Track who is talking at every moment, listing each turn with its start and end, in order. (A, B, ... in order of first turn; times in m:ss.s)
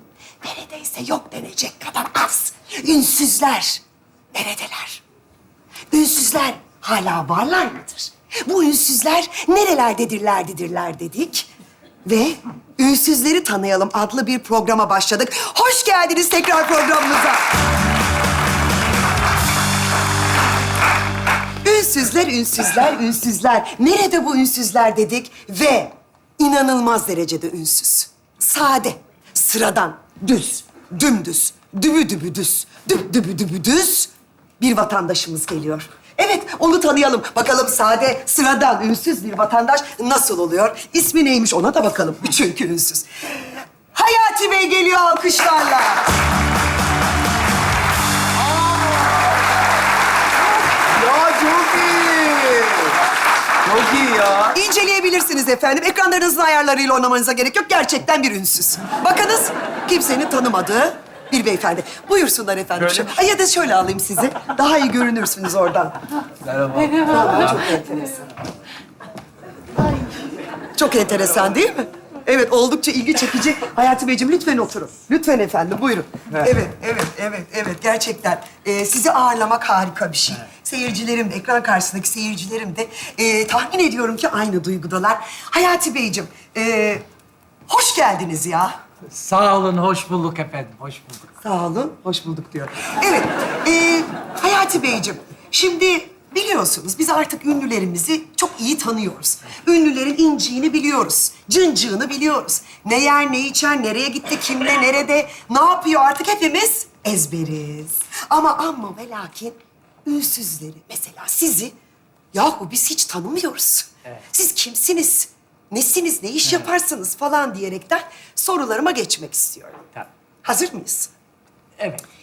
0:00.4-0:03.8 A
0:04.3-0:05.0 A
0:05.9-0:11.5 A
0:12.0-0:17.4 A
0:21.6-0:43.1 A
0:43.9-0:46.0 A
0:48.7-0:49.0 B
0:50.9-0:53.0 B
0:53.6-0:54.6 B
0:54.5-1:06.0 A
1:06.4-1:07.7 B
1:07.0-1:08.2 A
1:10.7-1:27.0 A
1:27.7-1:28.7 A
1:29.1-1:31.3 C
1:31.4-1:51.8 A
1:52.3-1:59.8 A
2:00.4-2:01.1 A
2:01.8-2:02.0 C